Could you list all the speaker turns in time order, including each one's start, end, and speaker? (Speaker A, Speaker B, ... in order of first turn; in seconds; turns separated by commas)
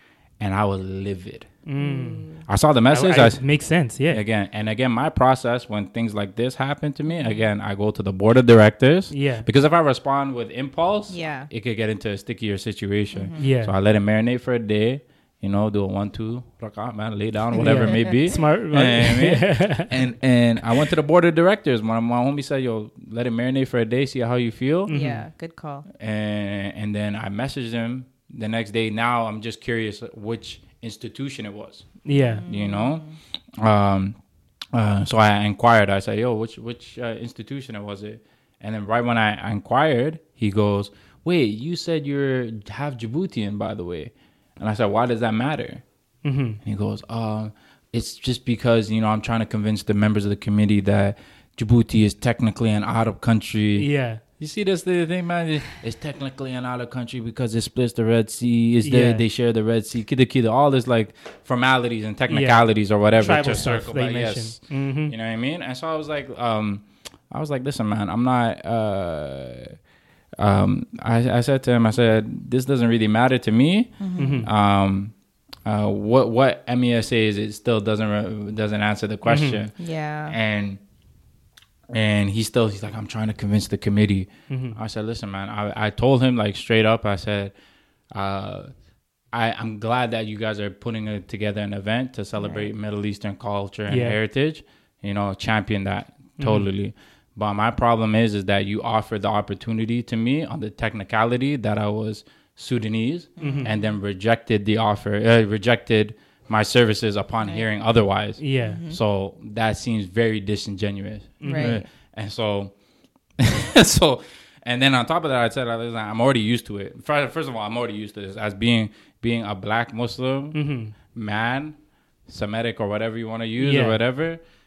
Speaker A: 0.4-1.5, Speaker B: 1.7-2.2, Speaker C: 1.8-2.5, Speaker A: 2.5-3.4, Speaker B: 2.9-4.2, Speaker A: 4.1-24.9, Speaker C: 7.1-7.5, Speaker B: 9.1-9.4, Speaker C: 11.1-11.5, Speaker C: 13.1-13.5, Speaker B: 13.4-13.7, Speaker B: 17.6-19.9, Speaker C: 17.7-18.1, Speaker B: 24.9-25.2, Speaker C: 24.9-25.9, Speaker A: 26.0-31.9, Speaker B: 32.1-32.4, Speaker C: 32.2-33.1, Speaker A: 32.5-34.2, Speaker A: 34.7-45.8, Speaker B: 46.2-46.6, Speaker A: 46.6-69.8, Speaker B: 53.8-54.2, Speaker B: 58.8-59.2, Speaker B: 62.3-62.6, Speaker B: 63.1-65.1, Speaker A: 70.4-75.1, Speaker C: 74.0-74.5, Speaker B: 74.2-74.5, Speaker A: 75.7-79.7, Speaker B: 79.3-79.6, Speaker C: 79.8-80.4, Speaker A: 80.3-80.8, Speaker A: 81.9-87.5, Speaker B: 84.5-84.8, Speaker A: 88.1-88.7, Speaker A: 89.3-112.7, Speaker C: 92.4-92.7, Speaker B: 93.9-94.2, Speaker B: 96.4-96.7, Speaker C: 103.4-103.9, Speaker B: 103.4-103.7, Speaker C: 107.4-107.7, Speaker B: 108.4-108.8, Speaker C: 108.6-109.0, Speaker B: 111.4-111.7, Speaker C: 111.5-111.9, Speaker A: 113.4-121.8, Speaker B: 120.5-120.9, Speaker A: 122.3-124.4, Speaker B: 123.6-124.0